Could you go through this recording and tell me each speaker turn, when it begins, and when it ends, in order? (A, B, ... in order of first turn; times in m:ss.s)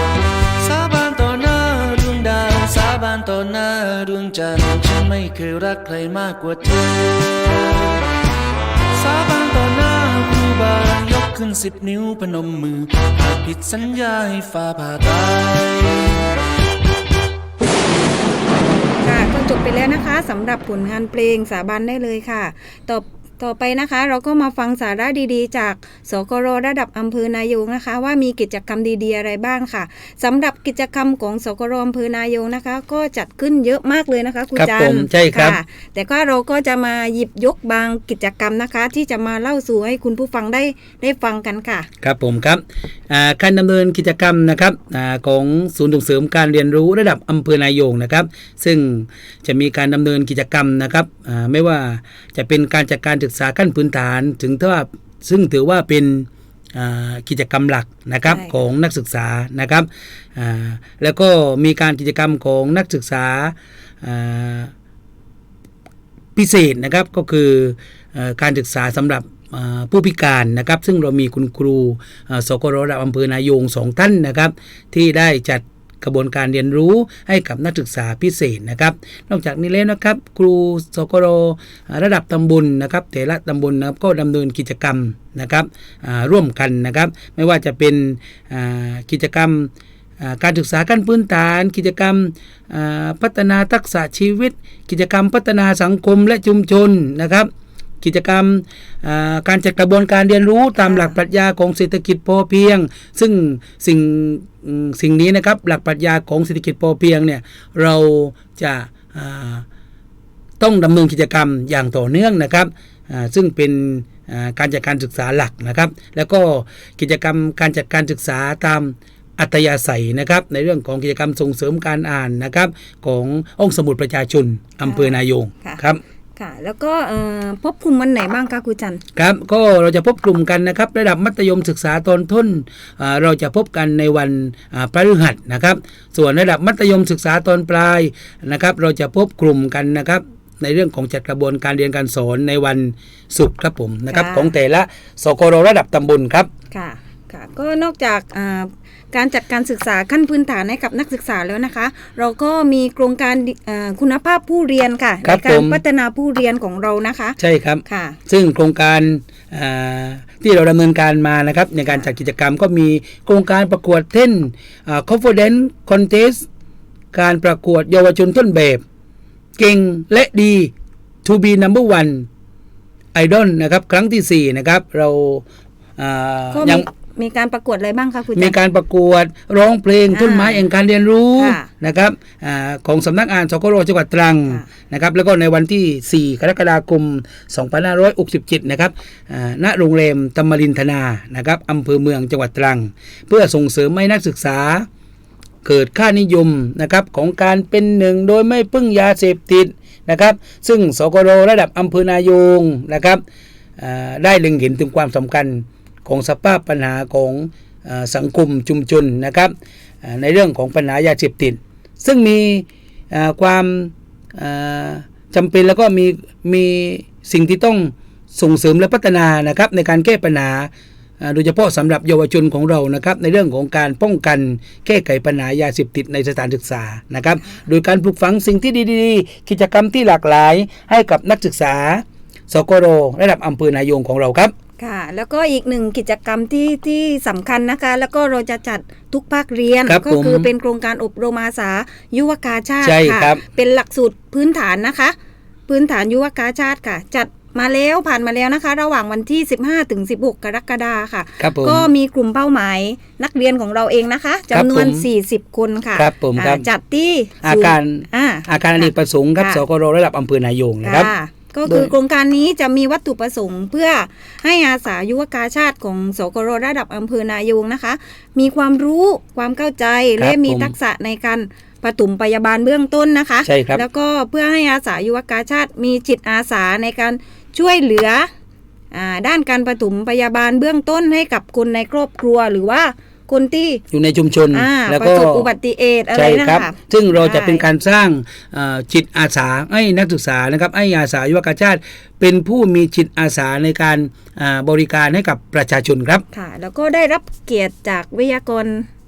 0:00.6-0:07.8 A
0:08.9-0:16.2 A
0:19.0-0:41.9 B
0:34.6-0:35.6 C
0:42.0-1:04.7 C
1:06.4-1:37.5 C
1:38.0-1:49.6 C
1:40.8-1:41.2 B
1:50.6-2:06.0 C
2:04.8-2:05.8 B
2:06.4-2:09.0 B
2:09.2-2:26.5 C
2:24.1-2:24.5 B
2:26.7-2:38.2 B
2:35.2-2:35.8 C
2:37.4-2:46.4 C
2:47.1-2:48.8 C
2:49.6-2:50.7 C
2:51.2-2:52.3 C
2:53.1-2:55.4 C
2:56.0-2:56.8 C
2:56.5-2:58.6 B
2:58.4-3:14.9 C
3:00.1-3:00.6 B
3:01.4-3:01.7 B
3:15.6-3:23.2 C
3:23.8-3:54.5 C
3:54.8-4:05.2 B
3:59.8-4:00.5 C
4:02.8-4:03.4 C
4:05.7-4:19.6 B
4:11.4-4:11.9 C
4:14.5-4:15.0 C
4:15.9-4:16.6 C
4:17.4-4:21.1 C
4:20.8-4:38.3 B
4:21.6-4:21.9 C
4:30.2-4:30.7 C
4:33.4-4:33.8 C
4:38.9-4:43.8 B
4:43.9-4:45.5 C
4:44.5-4:47.6 B
4:46.1-4:56.2 C
4:56.3-4:58.9 B